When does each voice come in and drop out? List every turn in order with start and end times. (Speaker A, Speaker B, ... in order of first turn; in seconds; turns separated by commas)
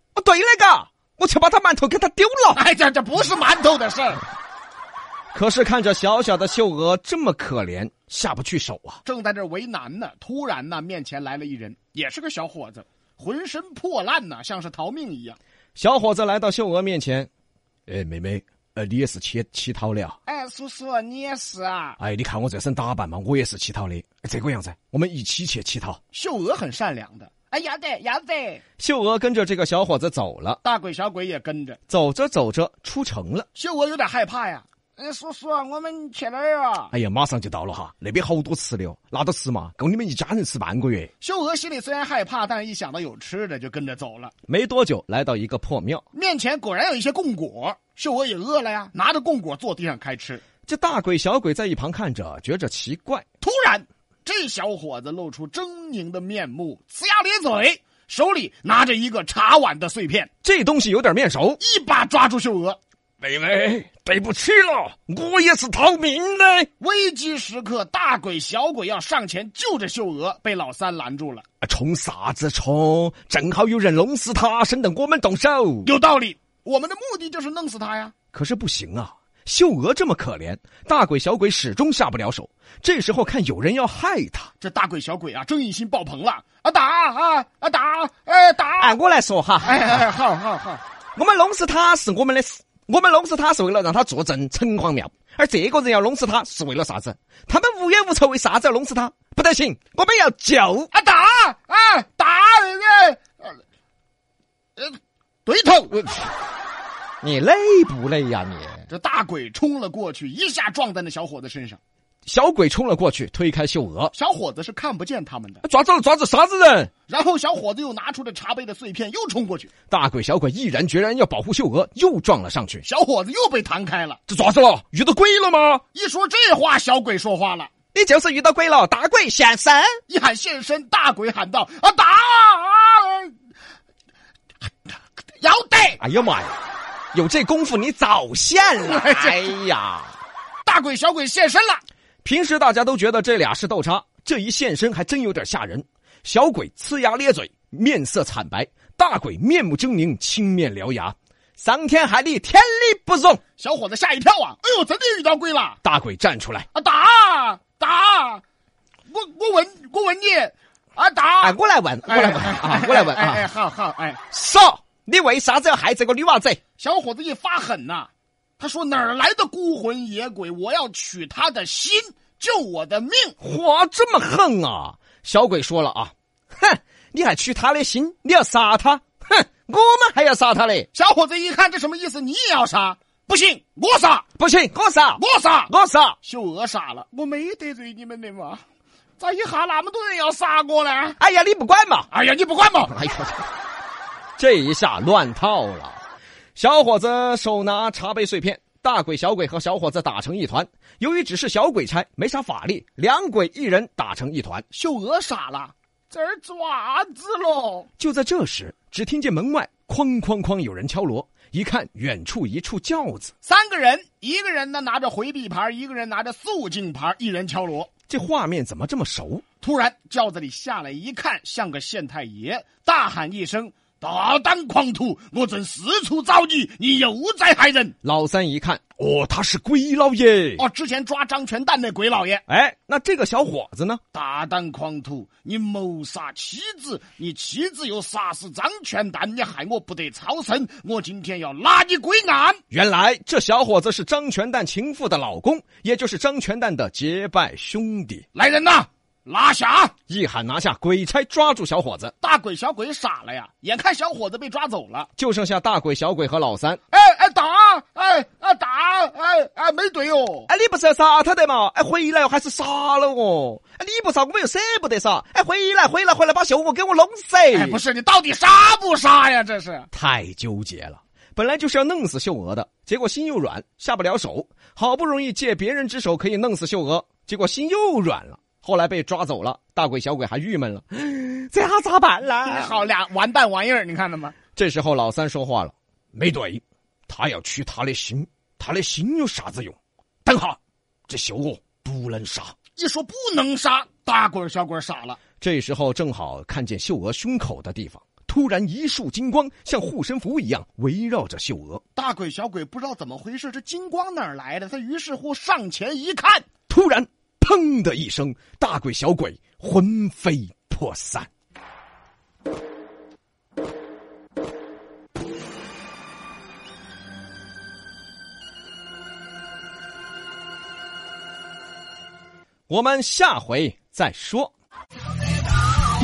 Speaker A: 0.2-2.6, Speaker B: 2.5-4.2, Speaker A: 5.3-9.0, Speaker B: 9.1-15.4, Speaker A: 15.8-17.3, Speaker A: 17.9-20.2, Speaker B: 20.3-22.0, Speaker A: 22.0-26.0, Speaker B: 26.1-28.6, Speaker A: 28.8-30.6, Speaker B: 30.6-31.8, Speaker A: 31.9-33.5, Speaker B: 33.5-36.9, Speaker A: 36.9-41.1, Speaker B: 41.2-44.3, Speaker A: 44.5-46.0, Speaker B: 46.1-50.4, Speaker A: 50.7-53.2, Speaker B: 53.4-60.3, Speaker A: 60.4-61.6, Speaker B: 61.6-62.8, Speaker A: 63.2-66.7, Speaker B: 66.8-71.4, Speaker A: 71.6-75.9, Speaker B: 75.8-78.1, Speaker A: 78.3-84.5, Speaker B: 84.6-89.0, Speaker A: 88.8-90.0, Speaker B: 89.6-90.8, Speaker A: 91.2-100.9, Speaker B: 100.9-103.6, Speaker B: 104.8-106.1, Speaker A: 106.0-106.2, Speaker A: 107.2-108.9, Speaker B: 108.9-111.8, Speaker A: 112.3-114.1, Speaker B: 114.1-115.6, Speaker A: 115.6-116.9, Speaker B: 117.1-119.7, Speaker A: 119.9-122.8, Speaker B: 122.8-124.2, Speaker A: 124.3-125.8, Speaker B: 125.9-127.7, Speaker A: 127.9-130.0, Speaker B: 130.1-133.3, Speaker B: 135.4-136.0, Speaker A: 136.0-136.6, Speaker A: 137.1-140.2, Speaker B: 138.8-139.5, Speaker B: 140.7-141.8, Speaker A: 142.2-153.4, Speaker B: 153.6-155.8, Speaker A: 155.8-156.7, Speaker B: 156.7-158.4, Speaker B: 159.1-161.6, Speaker A: 161.4-163.5, Speaker B: 162.1-164.2, Speaker A: 164.3-166.6, Speaker B: 166.8-173.4, Speaker A: 173.4-180.9, Speaker B: 180.9-184.3, Speaker A: 184.4-186.2, Speaker B: 185.2-188.6, Speaker B: 189.2-191.2, Speaker A: 191.2-192.1, Speaker B: 192.1-192.9, Speaker A: 192.9-193.4, Speaker A: 194.4-196.0, Speaker A: 196.6-204.7, Speaker B: 204.7-207.9, Speaker A: 208.0-213.3, Speaker B: 213.4-217.9, Speaker A: 218.1-219.4, Speaker B: 219.6-227.9, Speaker A: 228.0-230.6, Speaker B: 230.6-232.4, Speaker A: 232.5-234.0, Speaker B: 234.1-242.6, Speaker A: 242.7-248.2, Speaker B: 248.3-249.9, Speaker A: 250.1-252.1, Speaker B: 252.2-255.1, Speaker A: 255.2-256.8, Speaker B: 256.9-260.5, Speaker A: 260.5-267.8, Speaker B: 267.5-269.9, Speaker A: 269.9-282.8, Speaker B: 282.5-284.4, Speaker A: 284.6-292.6, Speaker B: 292.8-295.2, Speaker A: 295.4-301.8, Speaker B: 302.0-306.5, Speaker A: 306.7-311.3, Speaker A: 322.7-324.5